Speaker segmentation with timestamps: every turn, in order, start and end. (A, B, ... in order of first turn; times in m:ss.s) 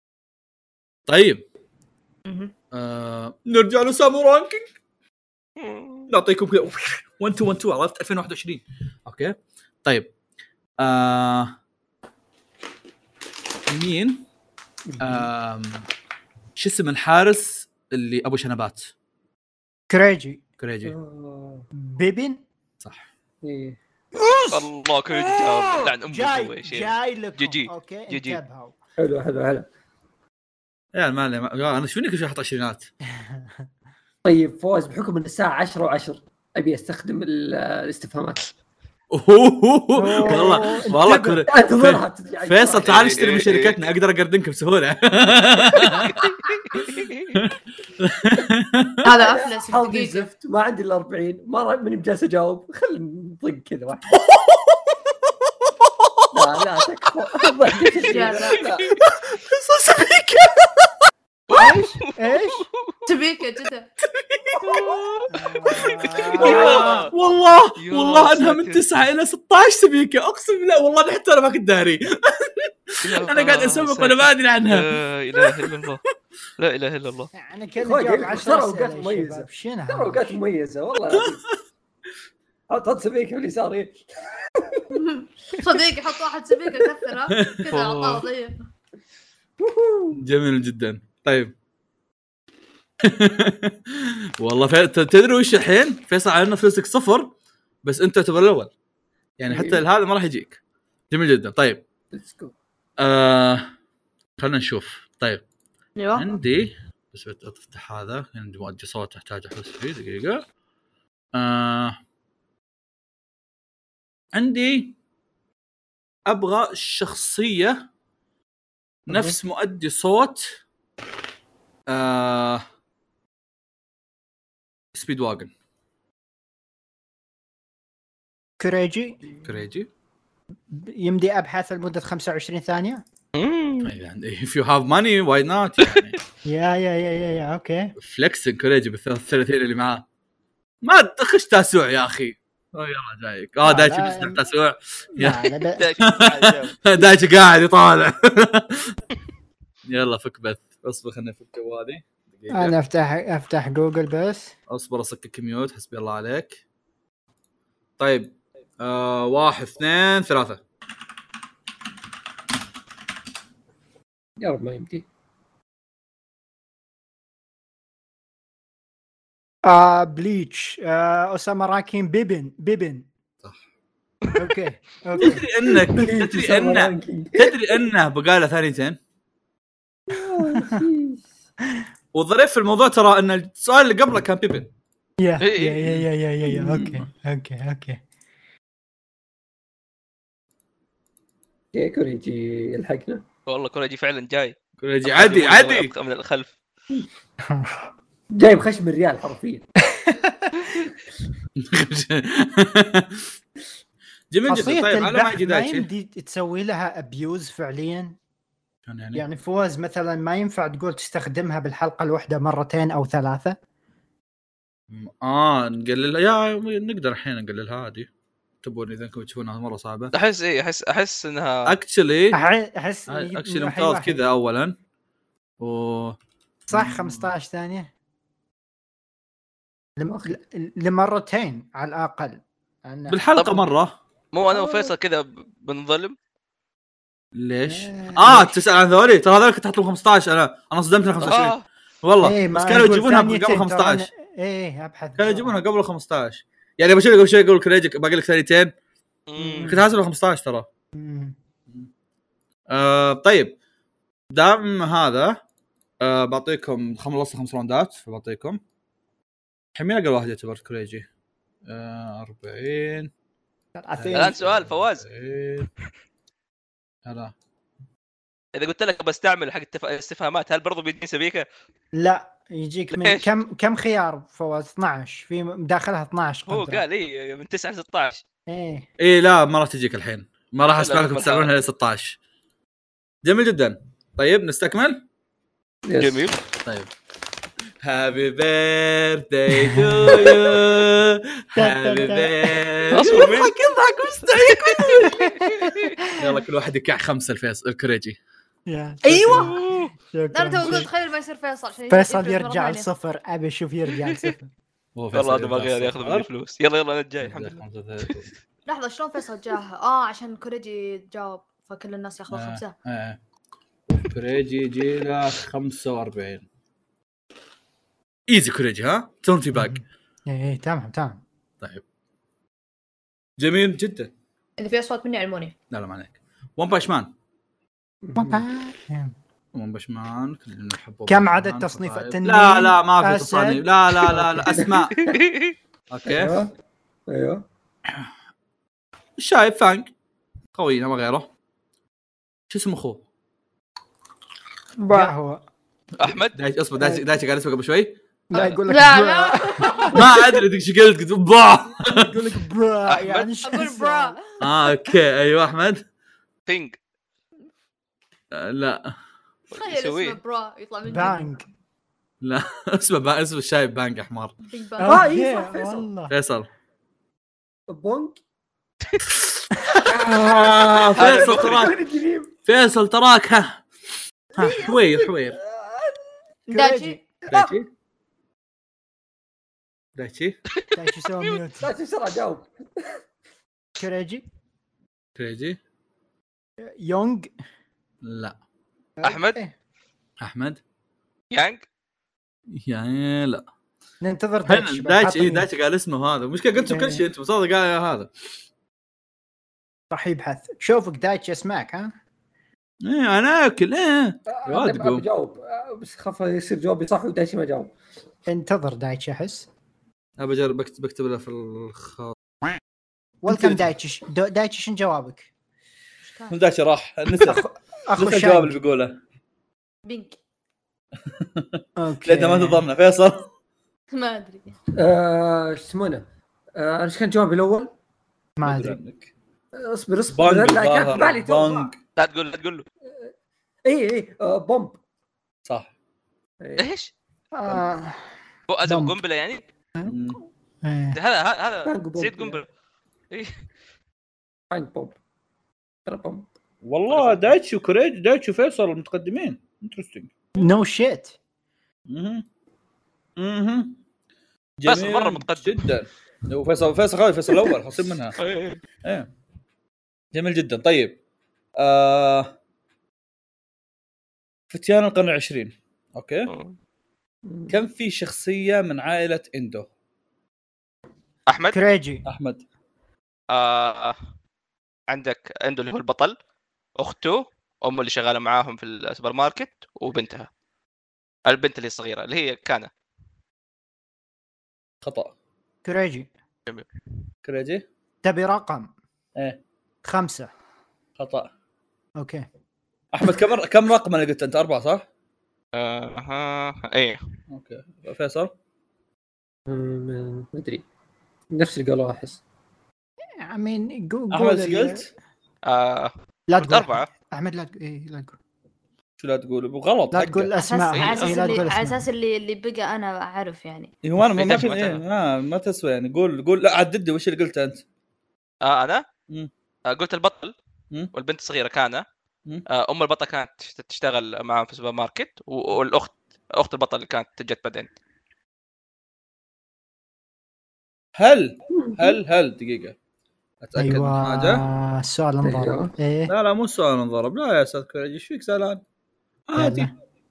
0:01.1-0:01.4 A
0:02.2-0:02.5 B
0:02.7-0:04.6 A
0:05.6-0:06.1 C
0:06.1-0:10.1 A
0:10.8-0:11.6 A
0:13.7-0:14.2 A
0:14.9-0:15.3 D
0:15.0-0:15.9 A
0:16.6-0:18.9 A
0:19.9-0:20.4 E
0:20.6-0:20.9 A
0:20.8-0:21.7 D
0:21.7-0:22.4 E
0:23.4-0:23.8 D
0:24.2-0:28.7 E
0:24.5-0:28.4 C
0:29.0-0:29.7 D
0:30.9-0:32.9 A
0:33.2-0:33.5 E
0:34.2-0:38.5 D
0:39.1-0:46.2 A
0:39.9-0:41.0 E
0:40.2-0:43.2 D
0:42.8-0:43.8 C
0:45.8-0:47.4 C
0:47.3-0:49.0 A
0:49.0-0:50.3 B
0:49.1-0:54.0 D
0:54.1-0:57.1 A
0:56.3-0:58.9 D
0:58.1-0:58.7 B
0:58.8-1:00.9 A
1:01.5-1:03.0 C
1:01.5-1:02.7 E
1:03.0-1:03.9 B
1:04.0-1:15.7 A
1:04.6-1:05.1 C
1:05.3-1:07.1 E
1:06.2-1:07.1 C
1:07.8-1:08.9 C
1:13.0-1:16.0 C
1:16.6-1:17.3 C
1:17.3-1:20.4 E
1:17.8-1:21.5 D
1:22.7-1:24.9 D
1:24.9-1:28.5 B
1:26.7-1:26.9 D
1:27.3-1:28.3 A
1:29.6-1:30.2 D
1:30.1-1:31.5 A
1:33.0-1:38.7 A
1:39.4-1:40.6 A
1:39.5-1:39.8 D
1:41.1-1:41.8 A
1:42.1-1:42.5 D
1:43.0-1:43.7 A
1:44.4-1:45.4 A
1:46.0-1:46.4 B
1:46.1-1:50.4 A
1:51.3-1:52.0 A
1:54.3-1:54.9 A
1:56.2-1:57.8 A
1:59.1-1:59.4 E
1:59.1-2:00.6 A
2:01.9-2:02.6 A
2:04.9-2:05.5 A
2:08.6-2:09.2 E
2:09.4-2:09.9 A
2:10.7-2:13.0 E
2:13.3-2:13.9 C
2:13.8-2:16.2 A
2:16.4-2:17.9 E
2:18.0-2:20.0 A
2:20.8-2:29.0 A
2:23.6-2:24.4 E
2:25.1-2:25.9 E
2:25.8-2:26.8 C
2:29.8-2:32.7 A
2:32.5-2:34.5 E
2:34.7-2:36.6 A
2:38.0-2:40.6 A
2:44.4-2:45.0 D
2:49.6-2:53.1 E
2:54.3-2:55.4 E
2:55.2-2:59.0 A
2:55.2-2:57.7 D
3:00.1-3:01.2 D
3:00.5-3:00.8 E
3:02.1-3:04.7 A
3:05.2-3:08.0 E
3:05.4-3:06.0 C
3:06.4-3:07.0 D
3:11.7-3:13.2 D
3:13.4-3:16.5 C
3:14.8-3:15.9 A
3:17.5-3:17.8 E
3:18.3-3:19.7 D
3:20.0-3:20.9 E
3:21.6-3:23.3 A
3:24.3-3:25.9 A
3:24.5-3:28.1 E
3:28.8-3:29.2 A
3:29.1-3:33.6 E
3:34.9-3:38.1 A
3:38.6-3:40.1 A
3:40.1-3:41.7 C
3:41.6-3:42.4 A
3:42.3-3:44.2 E
3:43.1-3:44.8 A
3:45.6-3:46.2 A
3:46.7-3:47.3 A
3:46.7-3:47.9 E
3:50.0-3:53.2 E
3:50.0-3:50.4 D
3:53.1-3:54.0 A
3:53.4-3:53.6 C
3:54.3-3:56.2 C
3:54.5-3:54.9 D
3:57.3-4:04.1 A
3:57.6-3:58.6 E
4:01.2-4:01.6 C
4:02.2-4:05.6 E
4:05.2-4:08.7 A
4:09.3-4:09.8 C
4:09.4-4:09.8 E
4:09.6-4:10.7 A
4:11.0-4:11.4 E
4:12.7-4:13.6 A
4:14.3-4:15.4 A
4:16.0-4:18.6 A
4:19.7-4:21.1 A
4:21.7-4:23.1 A
4:23.8-4:24.4 E
4:24.0-4:25.7 A
4:24.1-4:25.0 C
4:27.0-4:27.3 A
4:28.5-4:31.4 C
4:31.9-4:36.8 E
4:32.9-4:33.3 C
4:36.5-4:38.2 C
4:38.5-4:38.9 E
4:39.0-4:42.2 A
4:40.8-4:41.6 C
4:43.2-4:45.0 A
4:45.8-4:46.3 D
4:46.0-4:46.4 C
4:46.6-4:46.9 A
4:47.8-4:55.2 A
4:49.6-4:50.4 E
4:51.6-4:52.6 E
4:52.9-4:53.6 C
4:54.2-4:56.0 C
4:55.0-4:55.7 E
4:56.2-4:58.2 A
4:58.7-5:00.9 E
4:59.1-4:59.4 D
4:59.1-4:59.6 A
4:59.3-4:59.9 C
5:00.3-5:02.9 B
5:01.9-5:04.5 E
5:05.0-5:06.3 A
5:05.1-5:08.2 C
5:07.2-5:08.3 A
5:08.6-5:12.8 B
5:12.3-5:13.2 A
5:13.9-5:16.4 A
5:18.3-5:19.8 A
5:19.5-5:21.2 E
5:23.4-5:24.1 A
5:24.6-5:25.5 B
5:25.7-5:27.1 A
5:28.0-5:28.4 D
5:28.2-5:29.1 E
5:29.5-5:35.1 A
5:31.1-5:33.7 E
5:34.1-5:35.2 D
5:35.0-5:35.5 C
5:35.9-5:36.4 A
5:36.0-5:36.5 D
5:37.1-5:37.4 D
5:39.2-5:39.9 A
5:40.5-5:41.3 A
5:42.5-5:43.0 A
5:44.9-5:45.4 E
5:46.0-5:46.3 C
5:46.3-5:48.0 A
5:46.8-5:47.0 E
5:48.3-5:50.0 E
5:48.5-5:50.4 B
5:49.9-5:52.4 A
5:51.9-5:54.2 E
5:52.9-5:53.3 C
5:53.4-5:54.5 B
5:54.4-5:55.8 A
5:56.5-5:56.8 C
5:58.3-5:58.9 A
5:59.5-6:00.2 C
5:59.5-6:01.4 B
6:00.8-6:01.5 E
6:02.2-6:04.4 A
6:04.4-6:05.1 B
6:04.8-6:06.1 E
6:04.8-6:05.8 D
6:06.1-6:06.5 A
6:07.7-6:08.2 D
6:09.1-6:11.7 A
6:09.8-6:12.3 D
6:10.9-6:11.7 C
6:12.4-6:13.6 A
6:14.4-6:16.1 D
6:14.4-6:15.4 A
6:16.5-6:17.0 E
6:16.5-6:17.0 B
6:17.3-6:17.5 D
6:17.3-6:17.7 A
6:20.0-6:20.4 A
6:20.6-6:21.2 C
6:20.7-6:21.7 E
6:21.6-6:23.0 D
6:23.8-6:24.2 E
6:25.2-6:25.6 A
6:26.6-6:27.3 E
6:28.0-6:28.4 A
6:29.0-6:29.5 E
6:29.0-6:29.4 C
6:30.2-6:30.6 A
6:31.3-6:31.6 C
6:32.5-6:33.4 A
6:34.0-6:35.5 E
6:34.5-6:38.1 A
6:36.6-6:37.0 E
6:39.9-6:41.9 E
6:42.8-6:45.0 A
6:44.3-6:47.7 D
6:48.3-6:49.5 E
6:50.2-6:52.6 A
6:53.2-6:55.3 E
6:53.3-6:53.7 A
6:56.0-6:56.4 B
6:56.3-6:57.4 A
6:57.1-6:58.6 E
6:58.0-6:59.0 A
6:59.8-7:00.2 B
7:01.1-7:03.3 A
7:01.8-7:02.6 E
7:03.9-7:04.5 B
7:04.7-7:07.7 D
7:08.4-7:08.8 E
7:08.4-7:09.1 A
7:09.6-7:11.7 D
7:10.1-7:11.8 A
7:12.0-7:12.6 C
7:13.6-7:14.8 D
7:16.4-7:16.7 D
7:16.6-7:16.9 C
7:17.3-7:18.0 E
7:18.5-7:19.4 C
7:18.6-7:19.0 E
7:19.8-7:20.2 A
7:20.6-7:21.0 E
7:20.9-7:22.4 C
7:21.6-7:22.4 D
7:24.5-7:25.0 D
7:25.8-7:26.3 D
7:26.6-7:30.1 A
7:26.9-7:27.3 C
7:30.3-7:31.2 E
7:31.9-7:32.2 A
7:33.2-7:33.8 A
7:34.6-7:38.2 A
7:34.6-7:35.7 C
7:38.2-7:38.6 C
7:38.8-7:39.1 A
7:40.1-7:41.0 A
7:41.6-7:42.3 A
7:44.5-7:46.3 A
7:46.3-7:46.6 C
7:47.2-7:47.6 D
7:47.5-7:49.7 A
7:51.3-7:51.6 C
7:51.5-7:52.1 E
7:52.0-7:52.4 A
7:53.3-7:54.0 C
7:54.9-7:56.1 C
7:56.8-8:00.3 C
8:01.2-8:02.7 C
8:04.8-8:05.1 A
8:05.6-8:06.1 E
8:07.2-8:07.6 A
8:08.0-8:08.7 E
8:09.8-8:10.3 E
8:11.0-8:11.3 A
8:12.0-8:12.2 E
8:12.9-8:14.8 A
8:15.5-8:17.0 C
8:17.3-8:18.3 A
8:19.5-8:20.6 D
8:21.3-8:22.2 D
8:23.2-8:24.9 E
8:24.1-8:24.9 A
8:25.4-8:26.9 C
8:26.3-8:28.2 E
8:29.0-8:30.3 A
8:29.9-8:31.8 E
8:30.4-8:33.7 B
8:30.7-8:31.4 C
8:33.8-8:37.6 A
8:34.0-8:34.8 C
8:38.4-8:38.8 C
8:39.6-8:40.3 C
8:40.9-8:41.8 C
8:42.5-8:47.7 C
8:51.0-8:52.7 A
8:51.5-8:52.0 D
8:53.4-8:54.4 A
8:53.6-8:56.1 E
8:55.2-8:55.7 D
8:56.1-8:58.6 A
8:59.3-8:59.7 A
8:59.4-8:59.7 E